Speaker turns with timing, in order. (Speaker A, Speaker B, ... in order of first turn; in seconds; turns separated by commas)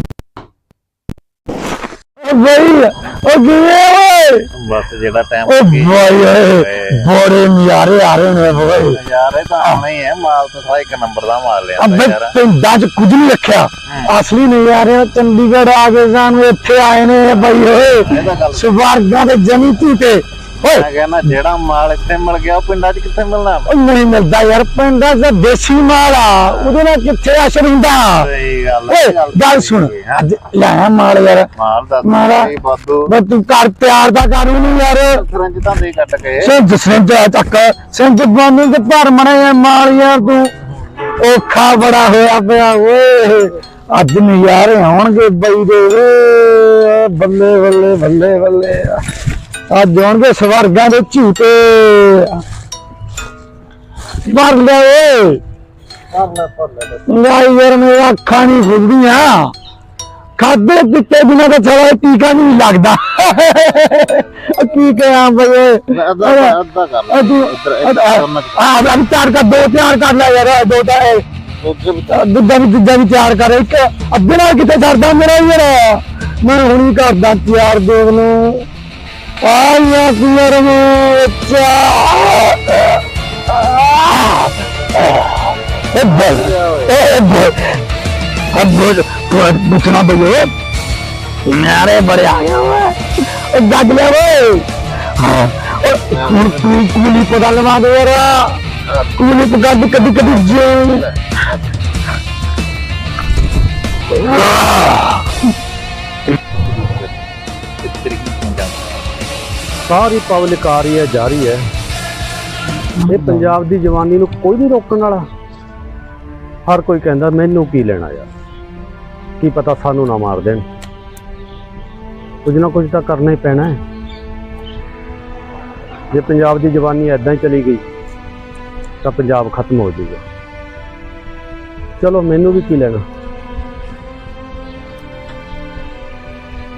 Speaker A: 2.2-4.5, Speaker B: 4.5-7.0, Speaker A: 5.5-9.0, Speaker B: 8.9-12.3, Speaker A: 11.8-20.9, Speaker B: 13.9-14.1, Speaker B: 17.3-18.9, Speaker B: 20.6-23.7, Speaker A: 23.7-28.3, Speaker B: 26.5-26.8, Speaker B: 28.2-30.2, Speaker A: 28.9-31.5, Speaker B: 31.6-33.1, Speaker A: 32.0-32.5, Speaker A: 33.0-35.2, Speaker B: 35.0-36.5, Speaker A: 36.4-40.5, Speaker A: 41.2-49.0, Speaker A: 49.7-52.4, Speaker A: 54.2-55.4, Speaker B: 56.1-57.0, Speaker A: 57.1-59.5, Speaker A: 60.4-66.5, Speaker B: 65.9-68.6, Speaker A: 67.1-71.2, Speaker B: 71.6-72.2, Speaker A: 72.1-78.7, Speaker A: 79.4-87.8, Speaker B: 86.1-86.9, Speaker A: 88.5-90.5, Speaker A: 91.4-98.6, Speaker B: 96.1-96.7, Speaker A: 99.2-101.1, Speaker A: 104.2-105.2, Speaker B: 106.7-107.1, Speaker B: 107.8-109.0, Speaker C: 109.9-111.7, Speaker A: 113.0-113.5, Speaker C: 113.1-115.3, Speaker C: 116.7-118.3, Speaker C: 119.4-120.7, Speaker C: 122.4-123.8, Speaker C: 126.1-127.8, Speaker C: 129.0-130.2, Speaker C: 132.0-133.0